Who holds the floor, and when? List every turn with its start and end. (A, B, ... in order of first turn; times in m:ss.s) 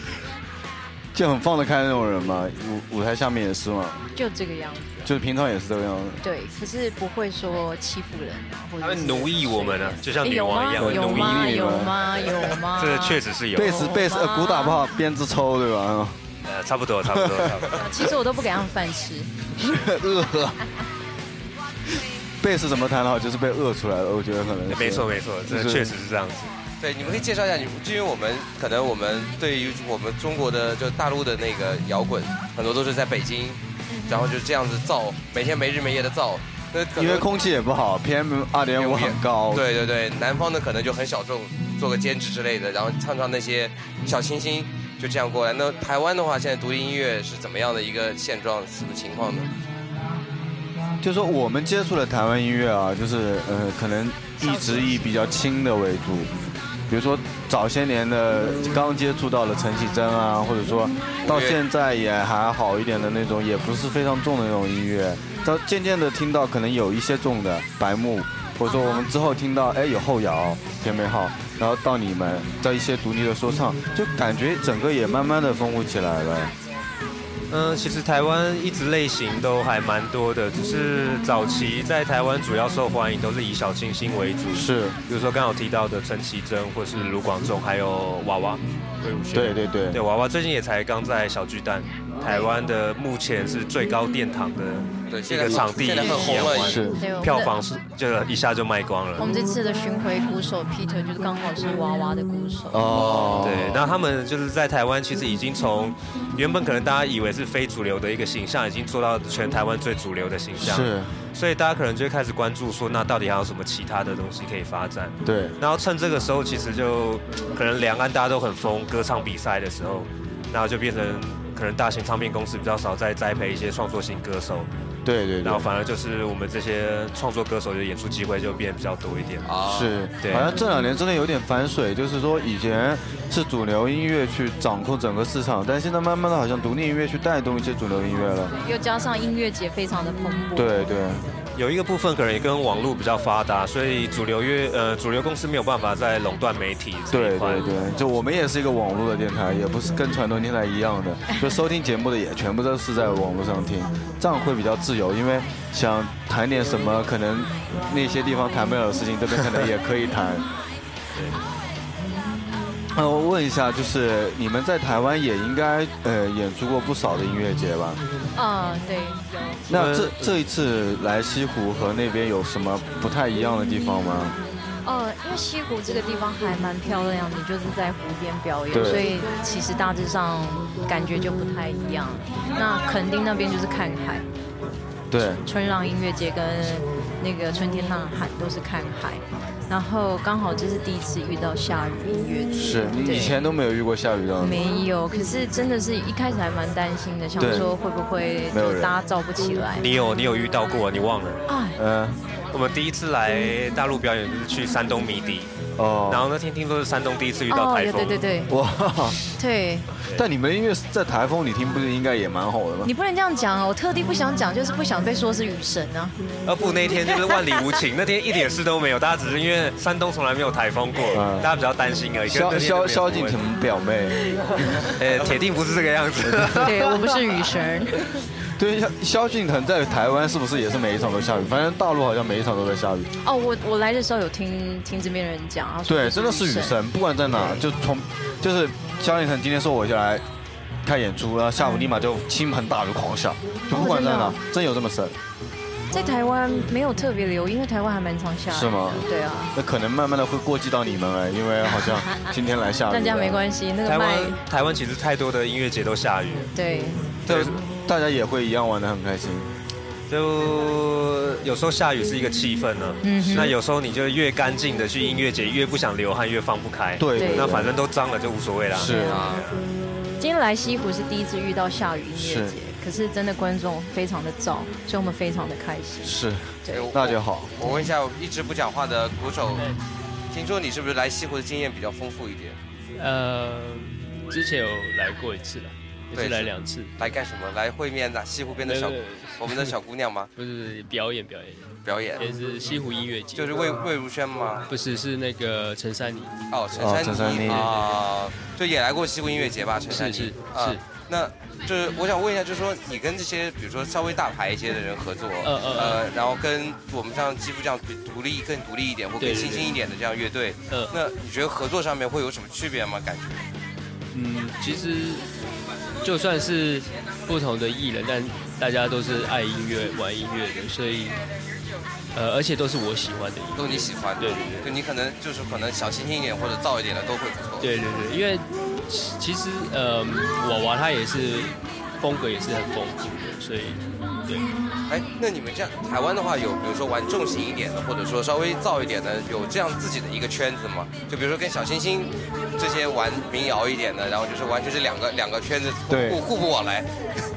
0:01.1-0:04.0 A
0:04.1-0:05.1 B
0:05.0-0:06.2 A
0:06.2-0:14.9 B
0:08.8-0:11.4 C
0:10.8-0:12.0 A
0:12.7-0:13.8 C
0:13.5-0:16.2 A
0:16.4-0:17.8 C
0:17.1-0:17.5 A
0:17.7-0:19.3 B
0:19.6-0:20.6 A
0:22.4-0:25.9 A
0:24.7-0:26.5 C
0:26.8-0:37.3 D
0:33.9-0:34.3 B
0:37.0-0:39.6 A
0:38.8-0:49.5 D
0:51.0-0:56.3 A
0:54.4-0:55.4 B
0:56.9-1:16.5 A
1:01.2-1:01.6 D
1:05.3-1:05.6 B
1:08.6-1:09.1 B
1:17.5-1:39.3 C
1:24.5-1:25.0 A
1:29.3-1:30.0 A
1:32.2-1:32.6 B
1:35.1-1:36.8 D
1:36.0-1:37.6 B
1:36.5-1:37.0 A
1:39.2-1:43.3 B
1:42.7-1:43.8 A
1:42.9-1:43.6 D
1:43.4-2:04.7 C
1:50.6-1:51.1 A
1:55.2-1:55.6 A
2:05.0-2:05.7 A
2:05.4-2:09.5 C
2:09.4-2:09.9 D
2:09.6-2:18.5 A
2:10.2-2:10.5 C
2:18.5-2:20.9 B
2:20.6-2:21.2 A
2:21.6-2:27.7 C
2:27.1-2:40.4 A
2:42.9-2:48.0 A
2:48.3-2:49.6 B
2:49.7-2:54.4 A
2:49.7-2:50.4 C
2:54.8-3:04.2 B
2:58.7-2:59.0 A
3:05.1-3:05.4 A
3:05.3-3:13.4 B
3:12.6-3:14.6 A
3:14.4-3:19.9 B
3:17.4-3:17.7 A
3:18.5-3:18.9 A
3:19.8-3:21.4 C
3:21.5-3:21.8 B
3:21.8-3:22.2 A
3:22.5-3:25.5 C
3:25.8-3:26.3 A
3:26.1-3:28.2 C
3:27.5-3:28.6 B
3:28.5-3:29.2 A
3:29.3-3:29.9 B
3:30.1-3:32.9 A
3:32.8-3:36.2 B
3:36.4-3:43.4 C
3:36.9-3:37.8 B
3:41.1-3:41.5 A
3:42.3-3:44.2 A
3:45.0-3:46.7 C
3:46.2-3:46.9 A
3:46.5-3:48.1 B
3:48.6-3:53.1 A
3:53.2-3:56.8 B
3:55.9-4:00.2 A
3:57.3-3:57.6 B
4:00.8-4:05.1 A
4:01.6-4:01.9 B
4:03.7-4:04.4 B
4:05.9-4:09.5 B
4:08.5-4:13.4 A
4:11.7-4:12.3 B
4:12.9-4:14.4 B
4:13.8-4:16.5 C
4:16.5-4:17.2 B
4:17.2-4:17.5 C
4:17.3-4:19.5 A
4:20.1-4:29.6 C
4:23.0-4:23.6 B
4:27.0-4:27.8 A
4:27.1-4:27.6 B
4:28.7-4:29.2 A
4:28.8-4:29.4 B
4:29.0-4:29.4 D
4:30.2-4:36.9 B
4:32.2-4:32.5 A
4:36.0-4:37.5 A
4:36.7-4:39.7 D
4:40.3-4:42.6 D
4:43.0-4:46.9 E
4:46.1-4:50.3 D
4:48.6-4:49.7 E
4:50.4-4:53.8 E
4:51.8-4:52.2 D
4:53.4-4:54.6 D
4:54.7-4:56.4 E
4:56.5-5:13.5 D
4:56.8-4:57.6 A
4:57.5-4:58.0 E
4:59.9-5:00.8 E
5:05.4-5:06.0 E
5:09.2-5:09.8 E
5:14.1-5:15.2 E
5:16.0-5:21.2 E
5:22.1-5:24.8 E
5:23.6-5:27.7 D
5:27.6-5:34.4 E
5:34.9-5:46.9 D
5:45.9-5:46.2 A